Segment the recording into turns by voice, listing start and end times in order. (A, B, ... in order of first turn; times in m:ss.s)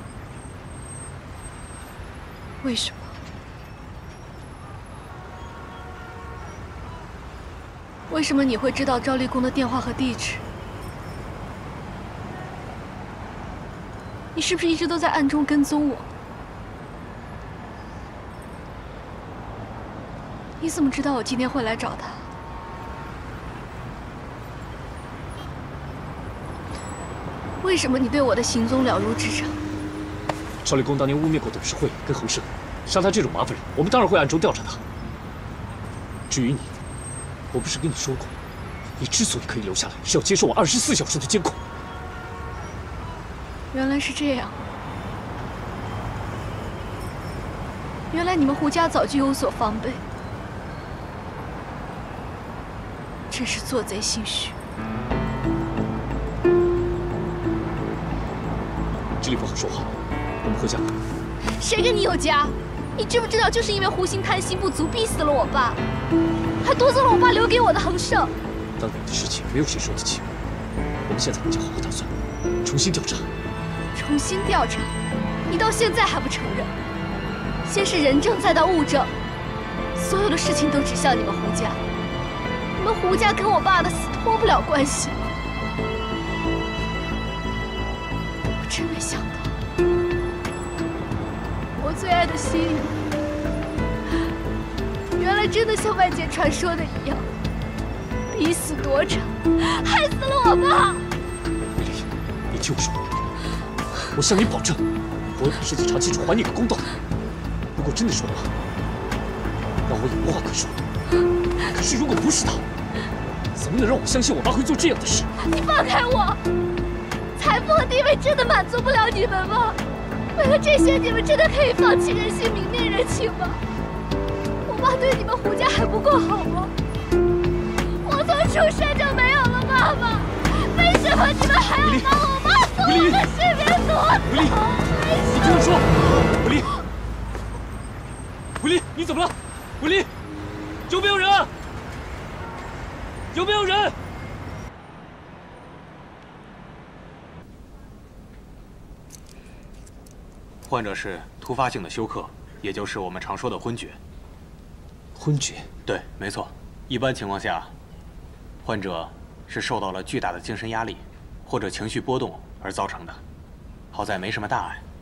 0:02.6-0:03.2 A
0:08.1-0:10.4 A
0:14.3-0:16.1 A
0:20.6-0:22.3 A
0:27.6-0:29.6 A
0:30.6-0:34.8 B
0:36.3-0:36.8 B
0:37.5-0:38.4 B
0:39.0-0:41.6 B
0:43.7-0:44.6 A
0:48.1-0:50.0 A
0:53.3-0:54.6 A
0:59.2-1:01.0 B
1:01.6-1:05.8 A
1:06.6-1:08.3 A
1:08.8-1:10.4 B
1:11.0-1:13.3 B
1:13.9-1:14.9 A
1:15.5-1:16.7 A
1:17.6-1:19.1 A
1:19.9-1:21.8 A
1:22.8-1:25.3 A
1:28.6-1:29.6 A
1:31.8-1:32.9 A
1:35.2-1:37.3 A
1:38.3-1:41.0 A
1:41.8-1:43.2 B
1:44.1-1:46.9 B
1:47.7-1:48.5 B
1:49.8-1:50.8 B
1:51.7-1:52.6 B
1:53.5-1:55.3 B
1:55.4-1:56.4 A
1:57.4-1:59.8 A
2:00.3-2:03.6 A
2:04.6-2:06.7 A
2:08.0-2:15.6 A
2:11.8-2:13.3 B
2:14.2-2:14.6 B
2:15.3-2:16.8 B
2:18.6-2:20.1 B
2:20.9-2:21.5 B
2:23.3-2:24.0 B
2:30.6-2:34.0 C
2:35.2-2:35.7 B
2:35.8-2:37.7 C
2:38.6-2:43.2 C
2:43.9-2:44.8 C